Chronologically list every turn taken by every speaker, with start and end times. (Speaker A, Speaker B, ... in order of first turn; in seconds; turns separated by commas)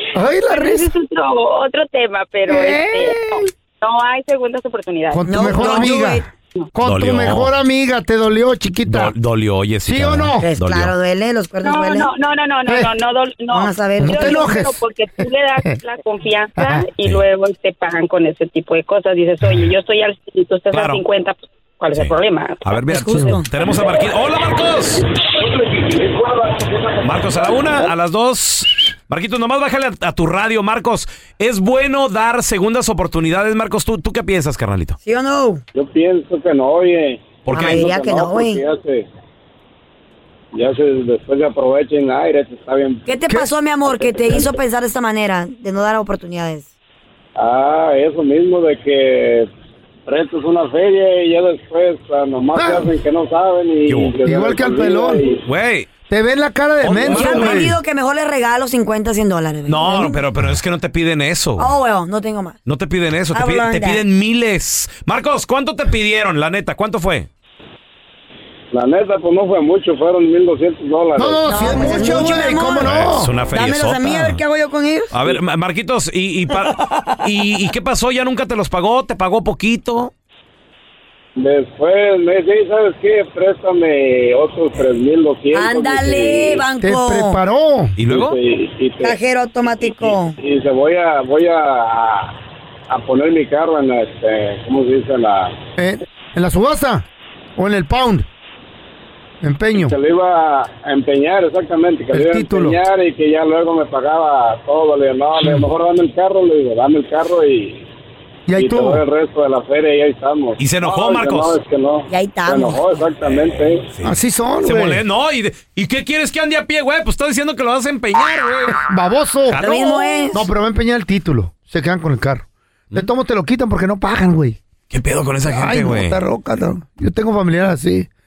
Speaker A: 0.1-0.9, Speaker B: 0.5-5.9, Speaker A: 2.5-3.5, Speaker A: 5.1-9.1, Speaker C: 5.3-6.3, Speaker D: 6.8-7.5, Speaker D: 8.8-10.9, Speaker A: 9.8-10.4, Speaker C: 10.4-12.1, Speaker B: 11.6-22.8, Speaker A: 12.7-12.9, Speaker C: 13.5-14.6, Speaker A: 14.0-15.8, Speaker A: 16.6-16.9, Speaker D: 17.0-17.2, Speaker D: 20.7-21.0, Speaker D: 21.9-25.1, Speaker C: 22.9-23.5, Speaker E: 25.9-27.3, Speaker D: 27.0-35.0, Speaker C: 35.0-35.6, Speaker E: 35.7-39.1, Speaker D: 37.5-37.9, Speaker C: 37.5-38.6, Speaker E: 40.5-43.1, Speaker C: 43.1-46.7, Speaker E: 43.9-44.5, Speaker E: 47.4-49.5, Speaker E: 50.1-55.4, Speaker A: 52.5-52.9, Speaker D: 53.9-54.1, Speaker A: 54.2-55.2, Speaker D: 55.4-55.9, Speaker A: 56.1-57.8, Speaker D: 56.8-57.7, Speaker C: 57.0-60.2, Speaker D: 59.7-61.7, Speaker C: 61.6-62.6, Speaker D: 62.6-67.3, Speaker C: 63.3-64.0, Speaker E: 68.7-72.1, Speaker A: 71.2-73.3, Speaker C: 71.4-75.2, Speaker D: 72.8-74.4, Speaker D: 75.1-80.1, Speaker E: 81.3-86.6, Speaker C: 85.5-87.4, Speaker A: 86.8-88.0, Speaker D: 88.0-88.4, Speaker E: 88.0-89.1, Speaker C: 89.0-90.3, Speaker E: 89.8-92.3, Speaker E: 92.9-95.6, Speaker A: 95.8-97.0, Speaker A: 97.6-98.3, Speaker A: 99.4-100.0, Speaker E: 99.8-107.8, Speaker A: 102.1-102.8, Speaker A: 108.5-109.0, Speaker E: 108.5-113.8, Speaker D: 110.6-111.6, Speaker C: 112.1-112.8, Speaker D: 113.2-118.8, Speaker A: 114.0-115.0, Speaker A: 118.8-119.6, Speaker D: 119.5-120.3, Speaker C: 119.6-120.4, Speaker A: 120.3-124.6, Speaker D: 124.9-126.2, Speaker A: 125.5-128.1